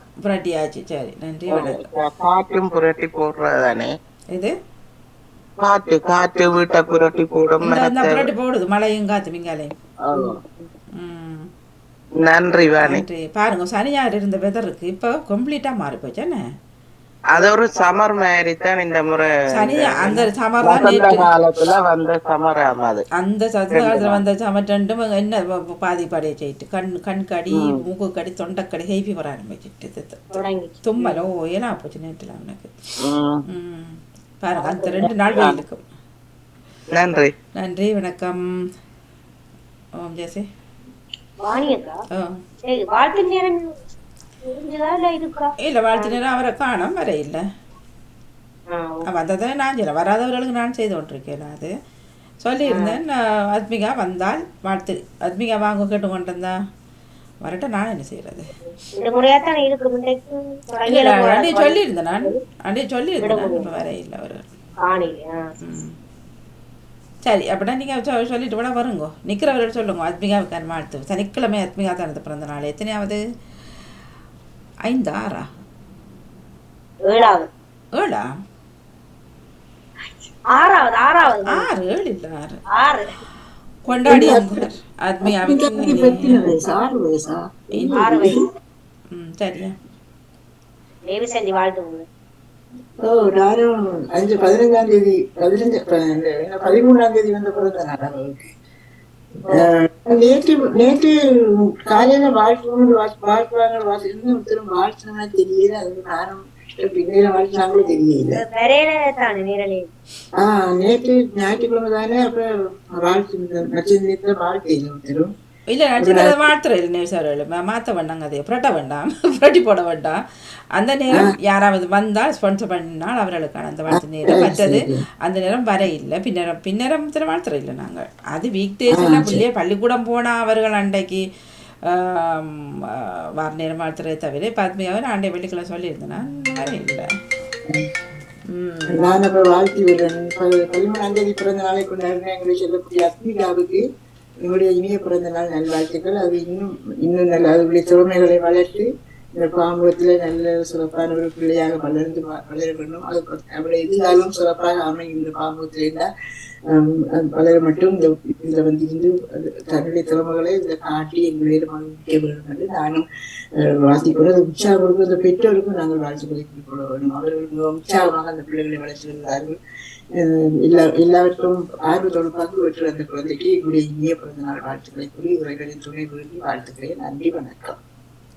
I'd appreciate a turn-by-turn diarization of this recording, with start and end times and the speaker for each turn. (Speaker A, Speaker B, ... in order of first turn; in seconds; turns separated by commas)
Speaker A: 0.2-1.8, Speaker B: 1.5-3.9, Speaker B: 5.6-8.3, Speaker A: 7.6-9.7, Speaker B: 10.1-10.4, Speaker A: 11.0-11.5, Speaker B: 12.2-13.0, Speaker A: 12.8-16.4, Speaker B: 17.3-23.0, Speaker A: 19.5-21.2, Speaker A: 23.2-30.3, Speaker B: 23.7-24.2, Speaker B: 27.5-27.8, Speaker C: 30.3-31.2, Speaker A: 30.8-32.7, Speaker B: 33.0-33.4, Speaker A: 33.5-35.8, Speaker C: 34.6-35.1, Speaker B: 35.3-35.6, Speaker B: 36.9-37.3, Speaker A: 37.6-38.4, Speaker A: 40.0-40.5, Speaker C: 41.4-42.0, Speaker C: 42.6-43.7, Speaker C: 44.4-46.2, Speaker A: 45.6-47.4, Speaker C: 48.7-49.0, Speaker A: 49.1-51.7, Speaker A: 52.4-56.5, Speaker C: 52.7-53.0, Speaker A: 57.4-58.5, Speaker C: 59.0-62.4, Speaker A: 60.9-64.4, Speaker C: 63.2-63.7, Speaker C: 64.8-65.4, Speaker A: 65.6-65.9, Speaker A: 67.2-73.2, Speaker A: 74.8-75.5, Speaker C: 77.0-77.5, Speaker A: 77.9-78.3, Speaker C: 80.5-81.7, Speaker A: 81.5-82.6, Speaker C: 82.7-83.1, Speaker A: 83.8-86.5, Speaker D: 84.0-84.7, Speaker D: 85.2-88.4, Speaker A: 87.7-88.1, Speaker C: 87.9-88.4, Speaker A: 89.1-89.7, Speaker C: 91.1-92.0, Speaker D: 93.0-98.5, Speaker D: 99.5-101.2, Speaker D: 101.8-108.4, Speaker C: 108.3-109.9, Speaker D: 110.4-115.3, Speaker A: 115.7-120.2, Speaker D: 116.0-116.5, Speaker A: 120.8-131.2, Speaker D: 123.9-124.9, Speaker D: 128.9-129.4, Speaker A: 131.9-132.7, Speaker A: 133.4-137.0, Speaker A: 138.5-139.1, Speaker D: 138.9-143.8, Speaker D: 144.4-156.1, Speaker D: 156.7-163.1, Speaker D: 163.6-169.6, Speaker D: 170.2-177.8